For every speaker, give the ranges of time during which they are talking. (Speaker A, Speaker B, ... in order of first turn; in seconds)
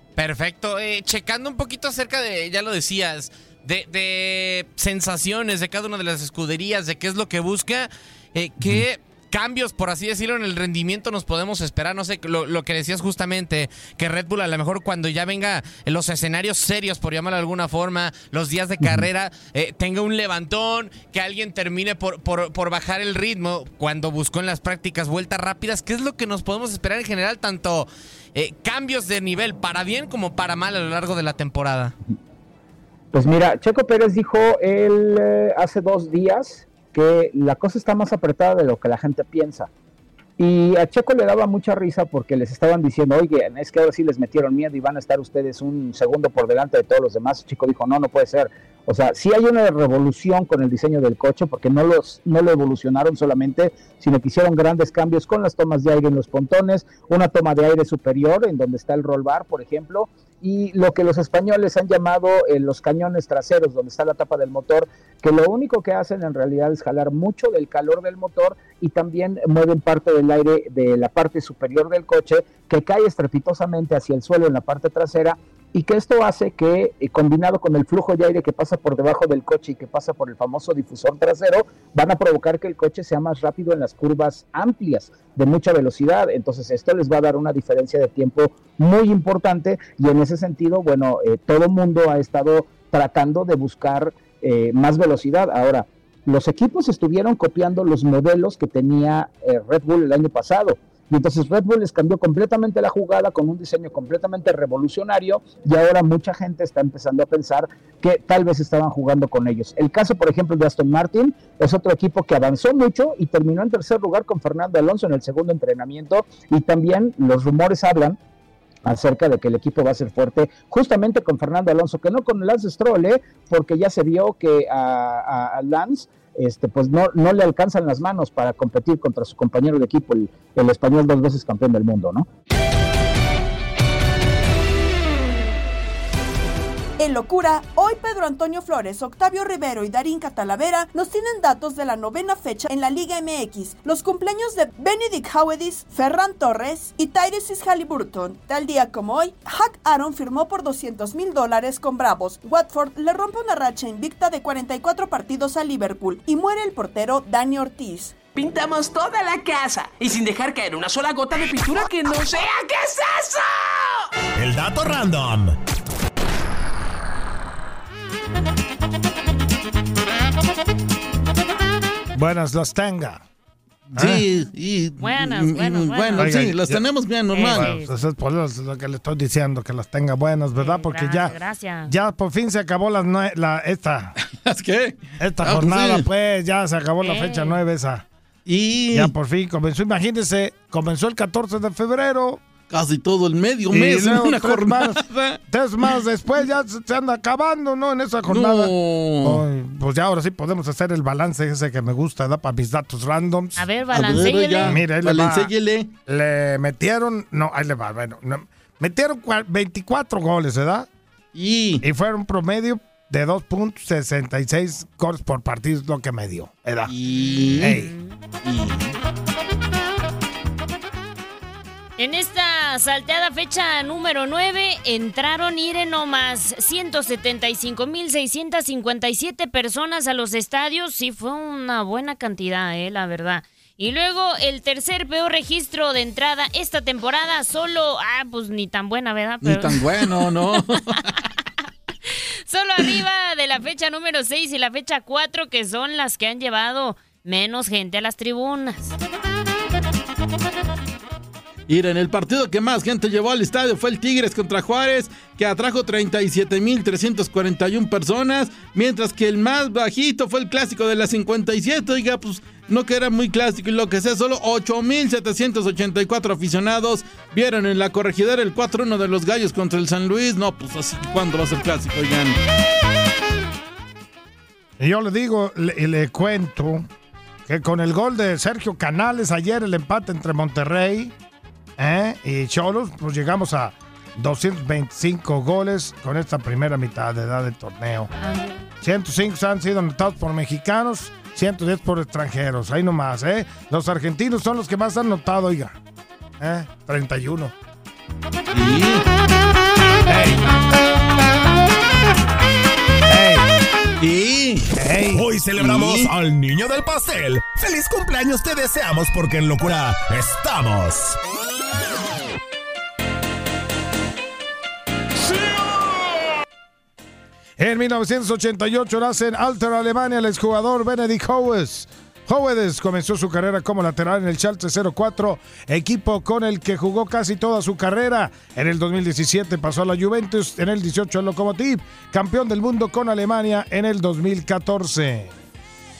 Speaker A: 0.2-31.9
Speaker B: 33.1-39.7, 40.4-118.2, 118.8-132.2
Speaker C: 137.0-158.2
Speaker D: 158.3-164.0
Speaker E: 164.3-165.6, 305.1-311.1
Speaker F: 172.1-173.2, 174.0-174.3, 176.2-176.8, 177.4-181.3, 181.9-184.1, 185.2-188.0, 188.9-192.4, 193.7-203.6, 204.7-205.5, 206.1-210.9, 211.8-216.9, 217.6-217.9, 274.8-276.9, 277.5-281.1, 281.8-288.1, 288.8-295.8, 296.4-297.5, 300.1-300.5, 303.1-303.5, 304.8-305.3, 317.6-335.3
Speaker G: 173.9-177.7, 184.2-186.1, 188.4-189.1, 192.7-196.0, 198.2-199.4, 203.9-205.9, 211.3-211.8, 216.9-217.8, 218.4-218.9, 239.4-241.1, 251.7-272.4, 298.5-299.0, 304.0-304.7, 305.6-306.0
Speaker H: 175.0-176.4, 177.3-177.9, 180.5-181.9, 187.0-187.6, 203.6-204.8, 217.1-218.2, 222.0-240.6, 242.5-248.9, 288.2-288.6